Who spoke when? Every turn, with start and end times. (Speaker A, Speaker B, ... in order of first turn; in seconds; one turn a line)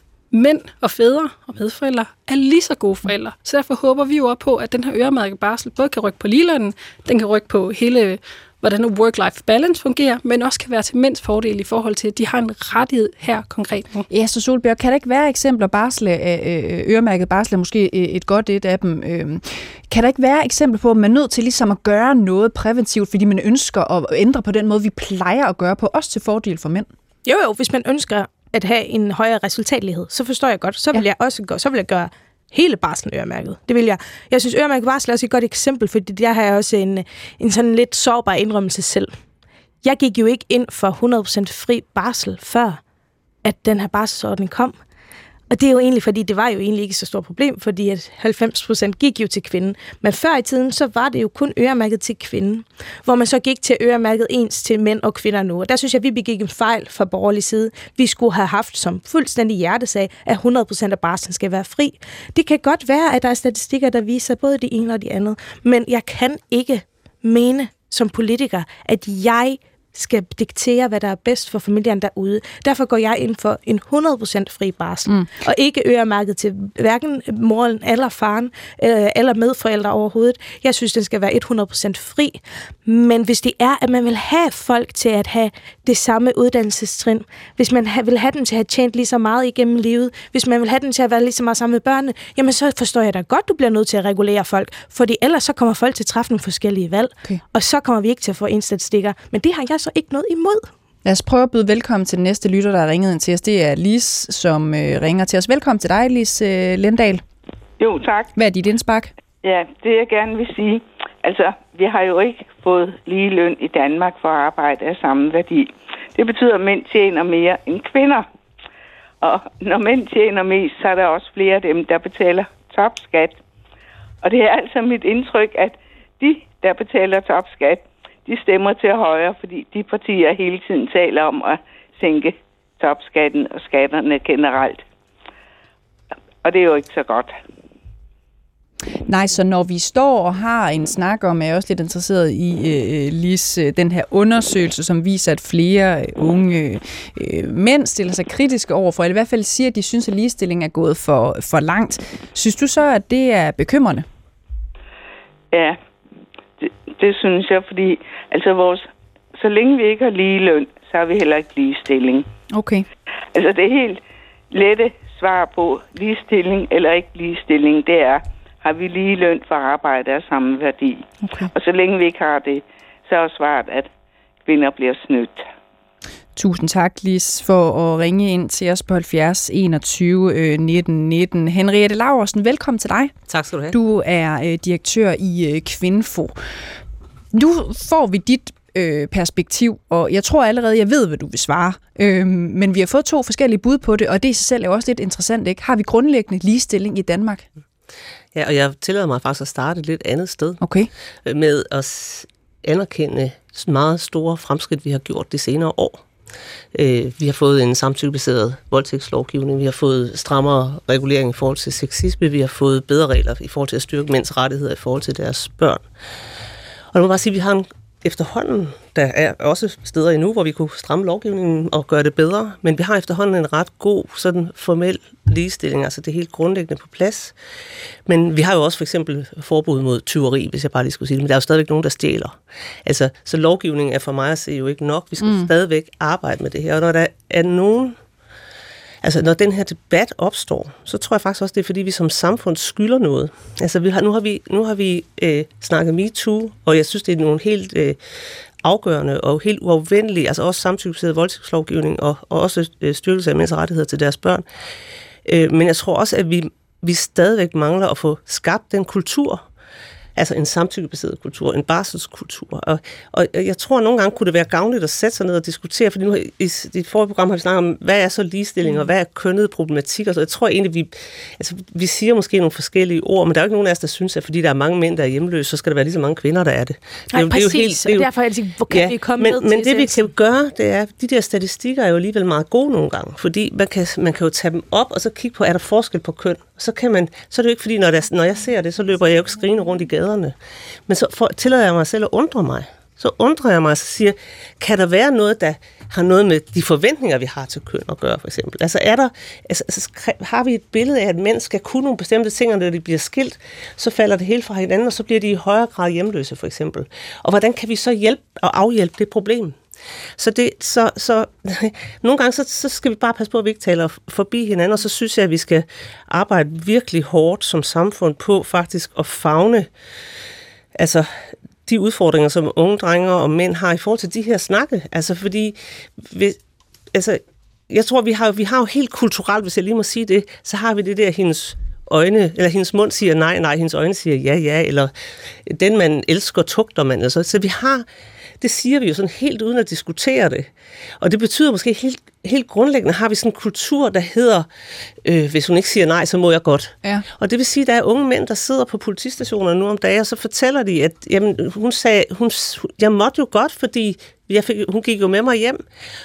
Speaker A: 0.3-14.1
Speaker B: 14.1-26.9
Speaker C: 27.2-39.1
Speaker C: 39.8-42.8
Speaker C: 43.4-44.7
Speaker C: 45.5-100.7
Speaker B: 101.0-107.2
Speaker D: 107.8-108.3
Speaker B: 108.3-109.1
Speaker D: 109.4-118.3
Speaker D: 119.2-123.4
Speaker D: 124.2-134.8
Speaker D: 136.4-137.3
Speaker B: 139.1-154.1
Speaker D: 155.5-155.8
Speaker D: 156.6-162.3
Speaker B: 162.5-162.9
Speaker D: 163.3-164.0
Speaker D: 164.5-173.9
Speaker B: 171.2-171.5
Speaker D: 174.4-175.5
Speaker B: 176.4-183.1
Speaker E: 183.3-183.8
Speaker B: 183.7-186.4
Speaker B: 187.3-197.5
Speaker E: 198.3-200.6
Speaker B: 200.6-200.9
Speaker E: 201.2-206.1
Speaker E: 206.7-215.9
Speaker E: 216.9-227.4
Speaker E: 228.1-238.0
Speaker B: 235.2-235.5
Speaker E: 239.0-248.0
Speaker E: 248.6-254.4
Speaker E: 255.2-259.5
Speaker E: 260.2-278.1
Speaker C: 277.1-280.1
Speaker E: 278.7-290.4
Speaker E: 290.9-309.6
Speaker E: 310.2-319.7
Speaker E: 320.8-326.4
Speaker E: 326.9-334.9
Speaker E: 335.5-337.9
Speaker E: 338.4-344.5
Speaker E: 345.0-355.6